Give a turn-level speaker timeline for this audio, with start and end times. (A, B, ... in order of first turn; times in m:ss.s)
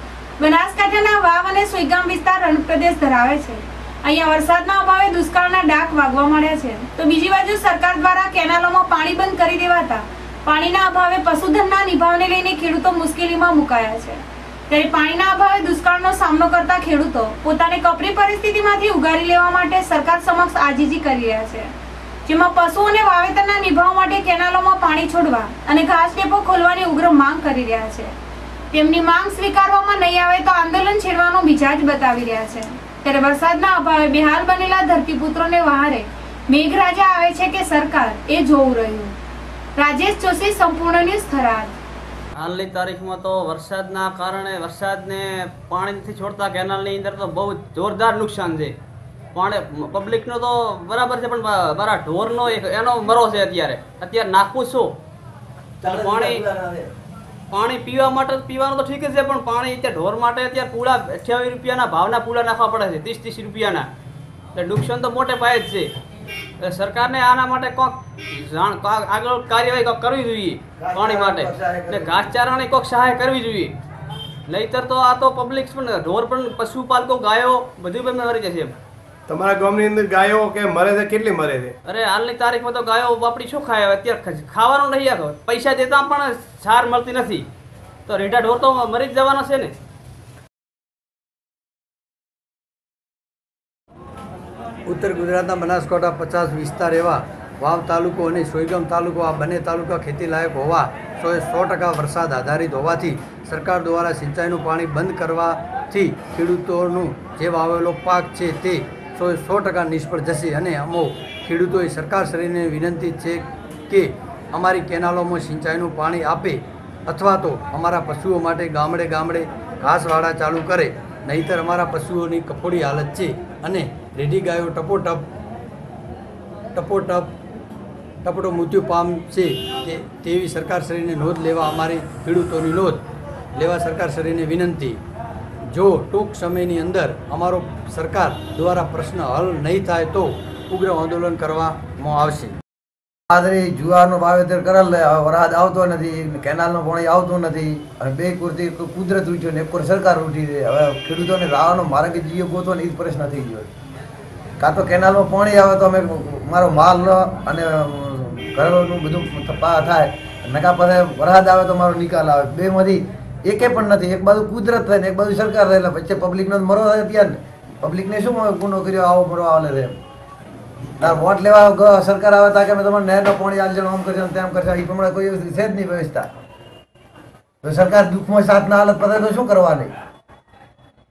0:00.4-0:21.7 A
0:22.2-0:28.1 A
0:28.7-0:39.1 A
0:39.8-0:41.7 A
0:42.4-0:48.8 B
0:49.3-0:54.9 B
0:55.8-0:56.9 C
0:55.8-0:56.4 B
0:57.5-1:03.9 B
1:04.5-1:05.9 B
1:06.6-1:13.7 B
1:10.8-1:12.3 C
1:14.5-1:18.7 B
1:19.3-1:21.7 D
1:21.8-1:27.4 B
1:28.1-1:29.7 B
1:34.9-2:05.2 E
2:06.7-2:07.3 E
2:08.2-2:13.0 E
2:13.6-2:15.0 E
2:15.7-2:22.6 E
2:23.3-2:33.7 C
2:34.6-2:50.0 C
2:51.0-2:56.3 C
2:57.6-2:59.9 C